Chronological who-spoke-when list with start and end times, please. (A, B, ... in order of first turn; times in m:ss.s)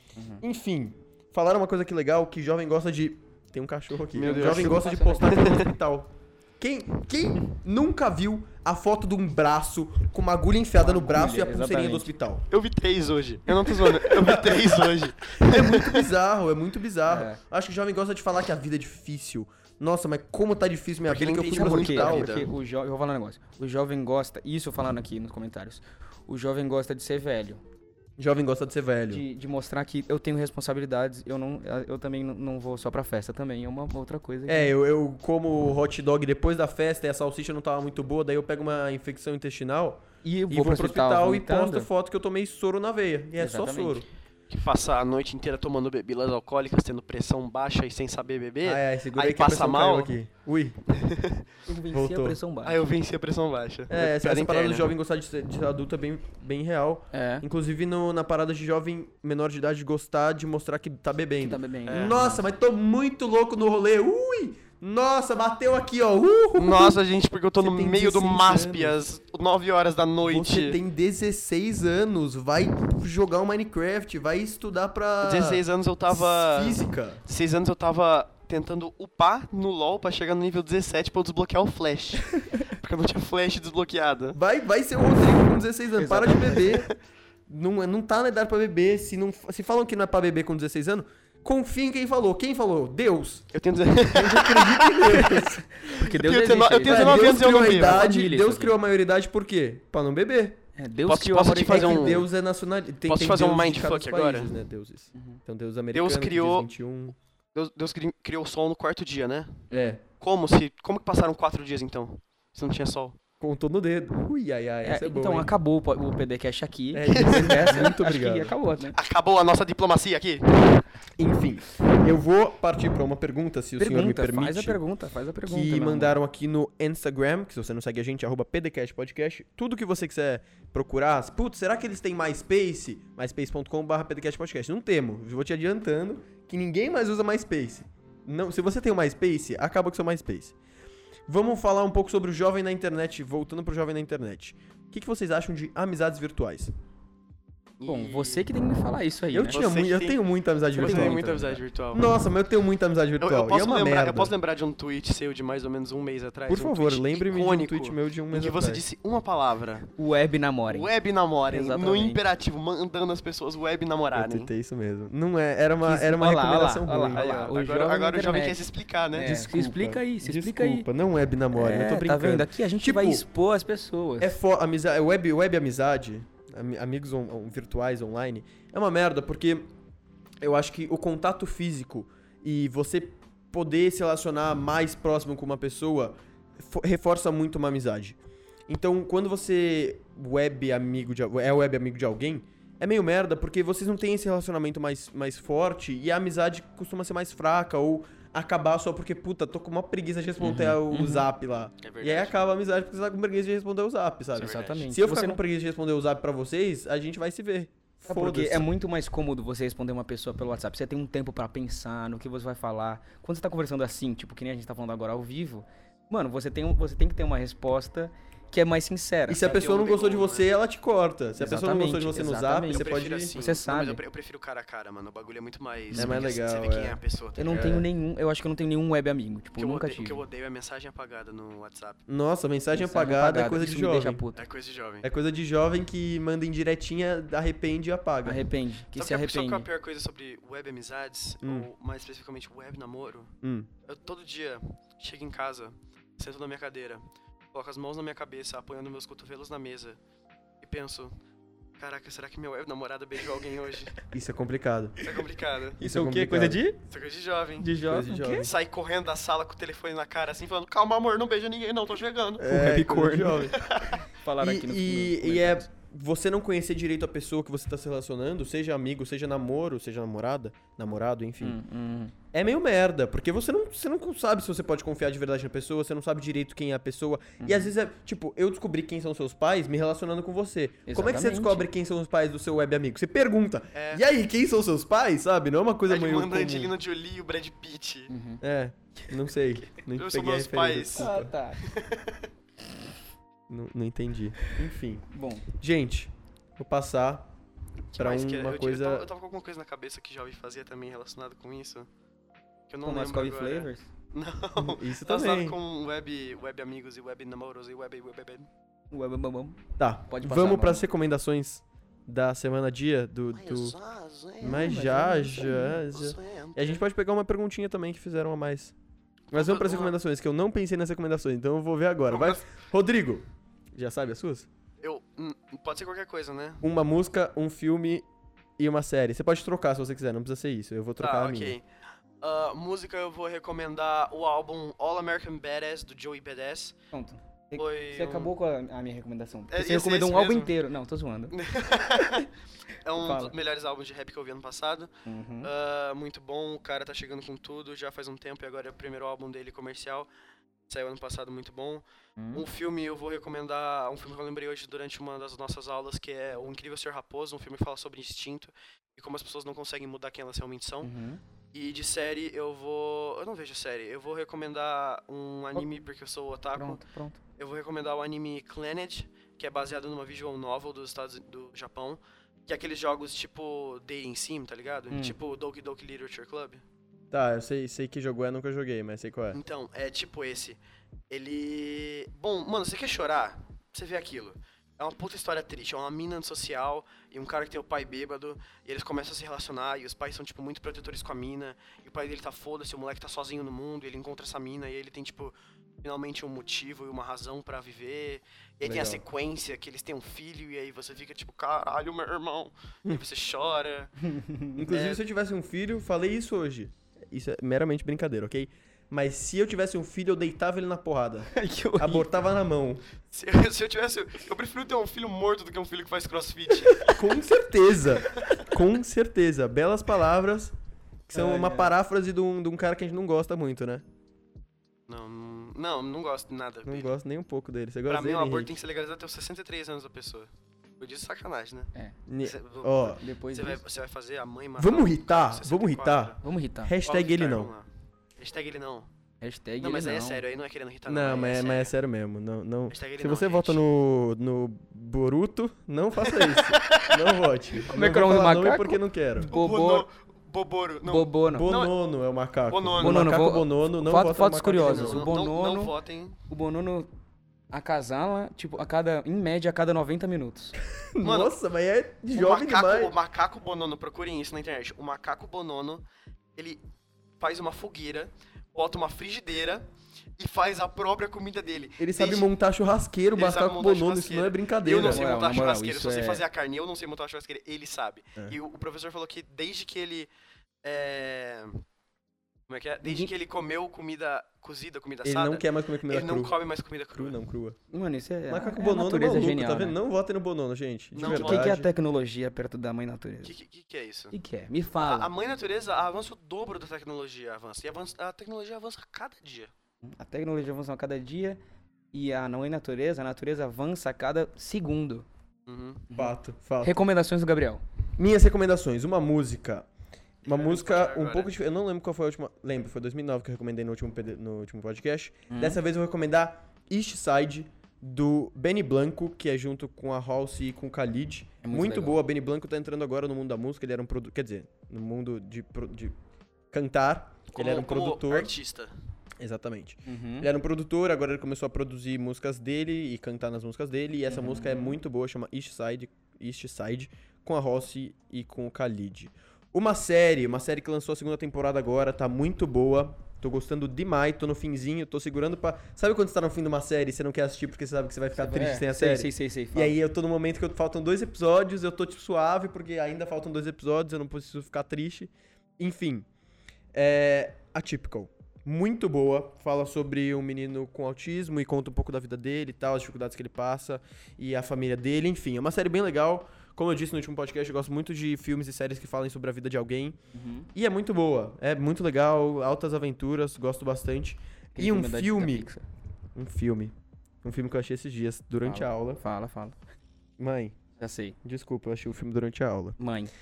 0:00.2-0:00.4 A
0:00.4-0:12.4 B
0:04.1-0:05.7 C
0:04.3-0:05.3 A
0:10.8-0:12.1 A
0:12.5-0:16.1 C
0:13.8-0:22.4 B
0:17.1-0:17.4 A
0:21.1-0:22.5 C
0:21.5-0:27.6 A
0:28.2-0:29.2 B
0:29.1-0:34.7 A
0:34.5-0:44.1 B
0:40.2-0:41.9 A
0:43.4-0:44.0 A
0:44.5-0:50.2 C
0:48.6-0:50.8 B
0:50.9-0:51.4 C
0:51.7-0:52.8 A
0:51.9-0:52.4 B
0:52.6-0:54.9 C
0:53.9-1:07.0 B
0:57.1-0:57.5 A
1:01.4-1:02.4 A
1:01.9-1:02.2 C
1:06.6-1:10.8 C
1:07.6-1:09.0 B
1:10.2-1:17.2 B
1:15.2-1:24.4 C
1:24.3-1:26.9 B
1:26.0-1:26.7 A
1:27.5-1:33.5 B
1:33.5-1:38.1 C
1:34.1-1:35.7 B
1:35.8-1:38.8 A
1:36.8-1:40.6 B
1:40.8-1:42.2 A
1:41.1-1:42.3 C
1:41.6-1:47.2 B
1:43.1-1:44.6 C
1:45.9-1:46.7 C
1:47.6-1:49.6 C
1:49.7-1:50.0 B
1:50.2-1:53.2 C
1:53.4-1:55.5 B
1:54.8-1:59.0 A
1:56.9-1:58.6 B
1:57.1-1:57.9 C
1:58.9-2:00.8 C
2:01.2-2:04.8 B
2:03.8-2:06.2 A
2:05.4-2:20.6 B
2:21.3-2:26.7 B
2:27.8-2:28.4 C
2:27.9-2:29.6 A
2:29.3-2:31.3 B
2:29.5-2:30.2 C
2:30.8-2:31.6 A
2:30.8-2:32.2 C
2:31.9-2:34.3 B
2:33.2-2:39.9 C
2:36.5-2:38.8 B
2:40.0-2:40.9 A
2:40.7-2:44.5 C
2:41.5-2:42.2 A
2:44.1-2:47.5 B
2:45.8-2:50.9 A
2:47.1-2:49.3 C
2:49.2-2:53.2 B
2:51.5-2:54.4 A
2:54.2-2:59.7 B
3:00.4-3:28.7 B
3:20.4-3:21.3 A
3:21.8-3:22.3 C
3:24.4-3:25.4 A
3:24.4-3:24.8 C
3:28.0-3:39.5 A
3:39.3-3:43.3 B
3:39.4-3:40.5 C
3:41.4-3:44.0 A
3:42.7-3:47.7 C
3:45.9-3:46.3 A
3:45.9-3:47.9 B
3:47.4-3:50.2 A
3:49.6-3:52.0 C
3:52.1-3:54.2 B
3:52.7-3:54.4 A
3:54.4-3:55.1 C
3:55.0-3:58.4 B
3:58.2-3:59.7 A
3:59.0-4:03.3 C
4:01.4-4:01.7 B
4:03.4-4:03.7 B
4:03.9-4:10.0 C
4:10.6-4:11.1 C
4:11.8-4:14.0 C
4:14.1-4:15.2 B
4:15.0-4:15.8 C
4:15.8-4:16.6 B
4:15.8-4:16.8 A
4:16.9-4:17.7 C
4:17.6-4:18.5 A
4:17.8-4:18.5 B
4:18.3-4:22.5 C
4:22.4-4:23.6 B
4:22.4-4:23.5 A
4:23.5-4:24.0 C
4:24.1-4:25.7 A
4:24.4-4:31.6 B
4:31.4-4:32.1 A
4:32.3-4:46.7 B
4:37.4-4:37.7 A
4:40.9-4:41.7 A
4:43.7-4:44.0 C
4:45.9-4:48.1 C
4:48.1-4:48.4 A
4:48.4-4:51.3 B
4:49.8-4:52.3 C
4:51.0-4:51.6 A
4:53.5-4:57.3 B
4:55.1-4:55.5 A
4:57.9-5:01.9 C
4:58.0-4:59.1 B
5:02.7-5:08.5 C
5:02.8-5:03.9 A
5:04.6-5:05.6 B
5:08.9-5:10.9 A
5:09.8-5:13.8 B
5:13.3-5:14.7 C
5:14.4-5:18.8 B
5:14.5-5:15.8 A
5:15.9-5:16.8 C
5:19.3-5:20.0 C
5:19.3-5:24.5 B
5:22.1-5:22.5 C
5:24.8-5:26.6 C
5:26.6-5:28.0 B
5:28.6-5:31.6 B
5:31.0-5:31.6 C
5:32.2-5:36.8 C
5:36.9-5:41.3 A
5:37.6-5:38.3 C
5:39.5-5:40.5 C
5:41.3-5:42.3 C
5:42.8-5:50.1 C
5:43.0-5:43.3 A
5:45.1-5:45.5 A
5:50.7-6:00.9 C
5:52.2-5:52.4 A
6:00.8-6:01.2 A
6:01.5-6:06.8 C
6:06.6-6:07.2 A
6:07.4-6:16.6 C
6:14.9-6:15.2 A
6:17.1-6:19.4 B
6:19.3-6:20.6 C
6:21.1-6:43.9 C
6:38.6-6:39.0 B
6:44.0-6:44.6 A
6:44.6-6:52.8 B
6:44.6-6:45.0 C
6:51.3-6:52.1 A
6:53.1-6:57.0 C
6:56.9-7:00.6 B
6:58.1-6:58.4 C
7:01.1-7:03.8 B
7:01.1-7:01.7 A
7:04.9-7:06.9 C
7:06.6-7:08.5 B
7:07.9-7:16.2 C
7:12.1-7:13.0 B
7:12.9-7:13.6 A
7:14.6-7:17.5 B
7:16.2-7:16.8 A
7:16.8-7:17.7 C
7:18.2-7:18.9 C
7:19.2-7:20.2 A
7:19.6-7:21.7 C
7:20.9-7:29.3 B
7:22.7-7:23.6 C
7:26.0-7:27.3 C
7:27.7-7:29.9 A
7:29.3-7:31.8 C
7:30.9-7:31.5 A
7:31.3-7:35.1 B
7:32.5-7:33.0 C
7:32.8-7:35.7 A
7:34.6-7:36.2 C
7:36.3-7:36.9 A
7:37.5-7:40.6 A
7:40.9-7:43.0 B
7:41.0-7:41.4 C
7:42.1-7:45.8 C
7:46.4-7:46.6 C
7:47.2-7:49.7 C
7:50.2-7:52.3 C
7:51.8-7:55.1 B
7:53.2-8:00.1 C
7:54.8-7:56.2 A
8:00.6-8:01.6 C
8:02.5-8:07.2 C
8:02.8-8:03.1 A
8:05.0-8:06.4 B
8:07.0-8:07.6 B
8:07.7-8:09.8 A
8:08.3-8:11.7 B
8:11.0-8:11.6 C
8:11.0-8:13.3 A
8:13.2-8:14.1 C
8:14.1-8:15.1 A
8:14.8-8:19.5 C
8:19.8-8:21.4 A
8:21.9-8:25.1 A
8:25.5-8:25.9 C
8:25.9-8:27.6 A
8:26.0-8:26.7 B
8:28.0-8:29.7 B
8:30.2-8:31.3 C
8:30.2-8:46.0 B
8:35.3-8:35.6 A
8:41.4-8:42.0 A
8:46.5-8:48.3 B
8:47.3-8:48.7 C
8:49.2-9:16.1 B
8:49.9-8:50.3 A
8:54.1-8:54.8 A
9:08.2-9:09.8 A
9:16.7-9:30.0 B
9:30.1-9:30.5 A
9:30.5-9:35.5 B
9:34.6-9:35.7 A
9:36.2-9:39.0 B
9:38.4-9:39.6 A
9:40.2-9:40.6 B
9:40.8-9:41.2 A
9:41.2-9:42.8 B
9:42.8-9:43.1 A